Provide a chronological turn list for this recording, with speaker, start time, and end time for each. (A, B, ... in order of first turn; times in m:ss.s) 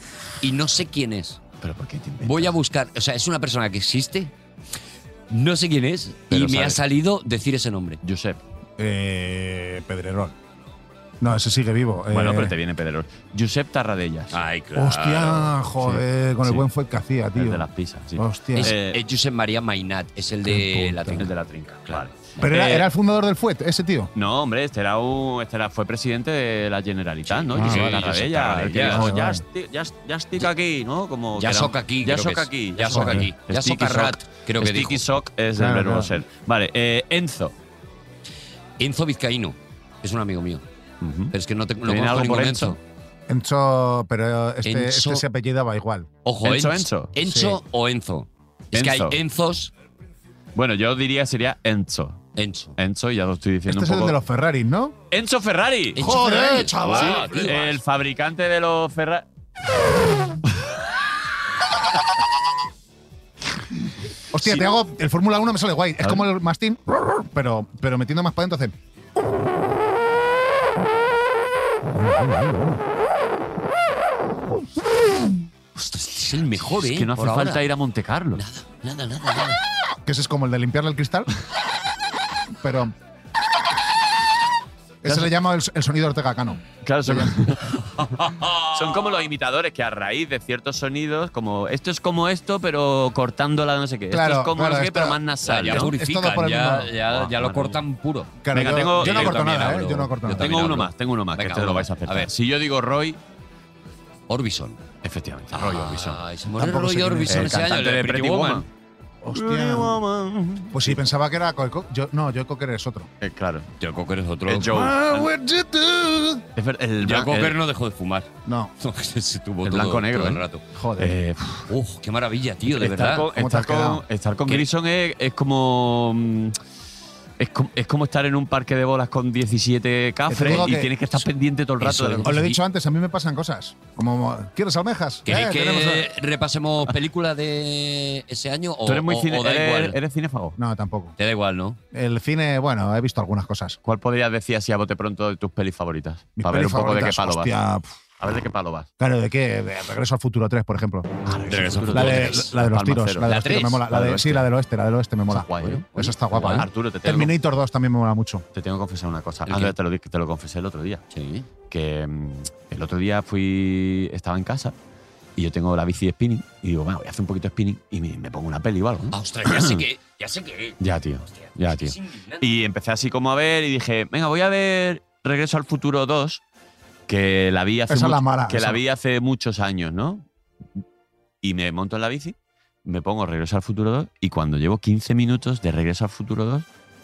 0:00.4-0:01.4 A
0:01.6-0:02.6 B
0:02.2-0:04.3 A
0:05.3-0:08.0 A
0:06.3-0:06.8 B
0:08.0-0:08.4 B
0:08.8-0:10.3 C
0:11.2-0:12.5 C
0:12.1-0:14.4 B
0:14.3-0:15.5 A
0:14.7-0:18.7 C
0:15.8-0:16.7 B
0:17.3-0:19.0 B
0:18.5-0:21.3 A
0:20.4-0:21.2 C
0:21.1-0:22.9 B
0:22.4-0:24.1 C
0:24.1-0:37.5 B
0:27.2-0:29.1 A
0:27.5-0:28.1 C
0:28.7-0:29.4 C
0:31.4-0:35.0 A
0:32.9-0:33.2 C
0:35.6-0:36.1 C
0:38.8-0:40.6 A
0:41.0-0:41.3 B
0:41.3-0:42.8 A
0:41.8-0:42.8 B
0:43.3-0:46.1 C
0:44.6-0:45.2 A
0:46.2-0:49.7 A
0:46.4-0:47.1 B
0:47.2-0:47.6 C
0:48.7-0:49.2 B
0:50.5-0:52.2 B
0:52.4-0:52.7 A
0:52.8-0:54.2 B
0:53.6-0:55.0 C
0:55.1-0:56.2 B
0:55.9-0:57.8 A
0:56.0-0:57.5 C
0:56.8-0:59.2 B
1:04.3-1:08.7 C
1:15.8-1:17.6 A
1:16.8-1:18.4 B
1:18.3-1:19.6 A
1:20.0-1:21.3 C
1:22.6-1:22.9 C
1:25.0-1:27.4 C
1:25.0-1:25.3 B
1:26.8-1:35.9 B
1:28.0-1:29.1 A
1:34.1-1:36.9 C
1:35.4-1:38.3 A
1:37.1-1:37.8 B
1:38.4-1:40.6 C
1:38.5-1:39.7 B
1:39.0-1:42.3 A
1:40.4-1:43.2 B
1:44.3-1:44.8 A
1:45.0-1:46.2 B
1:45.5-1:48.6 A
1:46.5-1:47.6 C
1:47.3-1:48.7 B
1:49.2-1:50.0 C
1:49.3-1:50.9 B
1:50.7-1:53.1 C
1:53.2-1:53.7 B
1:53.8-1:54.8 A
1:54.5-1:55.3 B
1:54.6-1:56.4 C
1:56.6-1:57.6 B
1:57.0-1:58.3 A
1:58.4-1:58.7 C
1:58.8-2:00.6 A
1:59.6-2:00.4 B
2:00.7-2:01.1 C
2:01.0-2:01.7 B
2:01.7-2:03.2 A
2:02.7-2:06.6 B
2:03.2-2:04.0 C
2:07.4-2:12.5 B
2:10.3-2:11.0 C
2:11.8-2:12.5 A
2:12.2-2:16.1 C
2:15.2-2:20.0 A
2:18.8-2:20.6 B
2:20.6-2:21.1 C
2:21.2-2:21.8 A
2:21.9-2:23.8 C
2:23.8-2:27.5 B
2:26.4-2:27.9 C
2:28.2-2:28.9 B
2:29.0-2:31.1 C
2:31.2-2:34.5 B
2:31.5-2:32.5 A
2:31.9-2:38.4 C
2:33.2-2:33.8 A
2:35.3-2:37.4 B
2:35.6-2:36.6 A
2:38.5-2:41.0 B
2:39.4-2:39.7 A
2:41.1-2:41.5 A
2:41.7-2:44.7 B
2:45.4-2:49.8 B
2:49.1-2:52.5 A
2:50.8-2:56.4 B
2:57.1-3:00.2 B
2:57.9-2:58.8 C
3:01.4-3:06.6 B